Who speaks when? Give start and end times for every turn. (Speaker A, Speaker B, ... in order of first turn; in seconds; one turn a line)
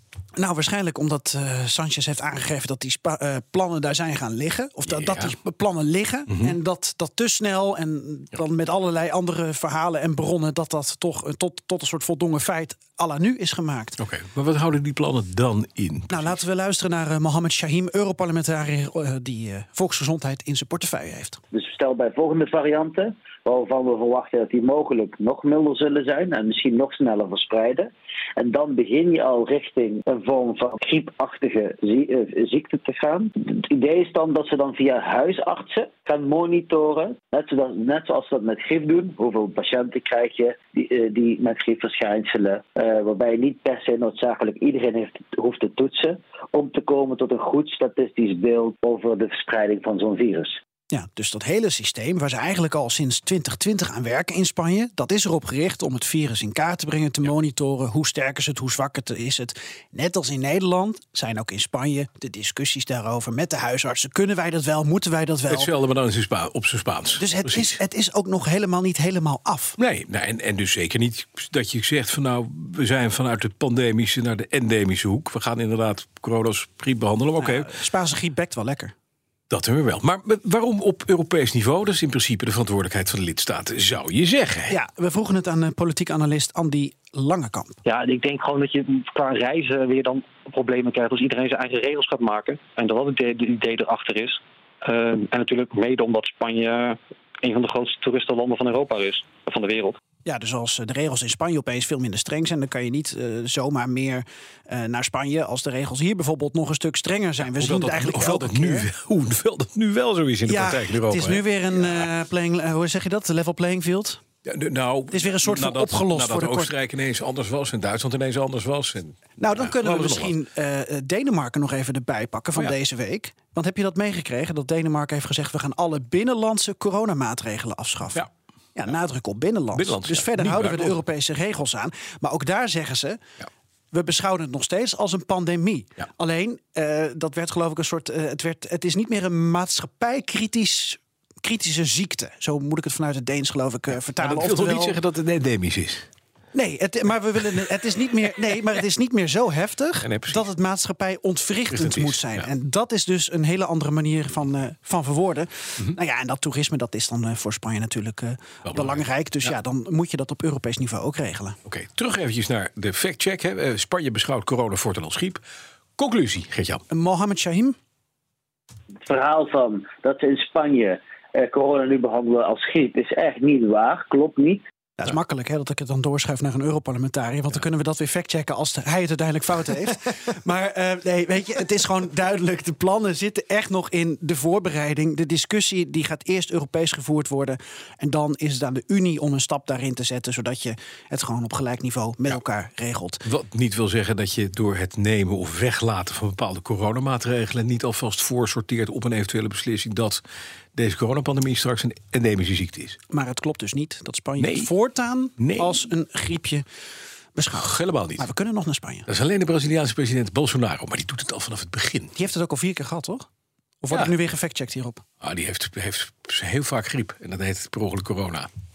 Speaker A: 0.3-14.0
Speaker B: 4.9-5.3
Speaker B: 14.0-16.4
Speaker A: 16.1-21.4
Speaker C: 21.5-50.5
Speaker A: 50.9-65.7
Speaker B: 65.5-67.8
Speaker A: 67.1-69.8
Speaker B: 69.8-77.7
Speaker A: 77.4-78.9
Speaker B: 79.5-84.8
Speaker A: 84.7-87.8
Speaker D: 87.8-100.0
Speaker A: 100.2-108.9
Speaker B: 107.4-112.1
Speaker A: 110.5-114.2
Speaker B: 114.4-120.4
Speaker A: 115.1-116.7
Speaker A: 119.4-133.2
Speaker B: 129.7-131.0
Speaker A: 133.9-145.0
Speaker B: 144.2-146.1
Speaker A: 146.5-161.6
Speaker B: 150.0-150.4
Speaker B: 151.7-152.4
Speaker B: 158.6-159.5
Speaker B: 161.7-165.4
Speaker B: 166.0-166.8
Speaker A: 166.9-167.8
Speaker C: 169.1-174.6
Speaker A: 175.0-193.2
Speaker B: 193.2-200.2
Speaker B: 200.7-203.0
Speaker A: 203.1-206.6
Speaker B: 204.4-204.7
Speaker B: 205.4-205.8
Speaker A: 207.3-209.1
Speaker B: 207.5-208.2
Speaker B: 209.1-212.2
Speaker A: 212.1-213.2
Speaker A: 213.8-215.0
Speaker B: 215.2-218.5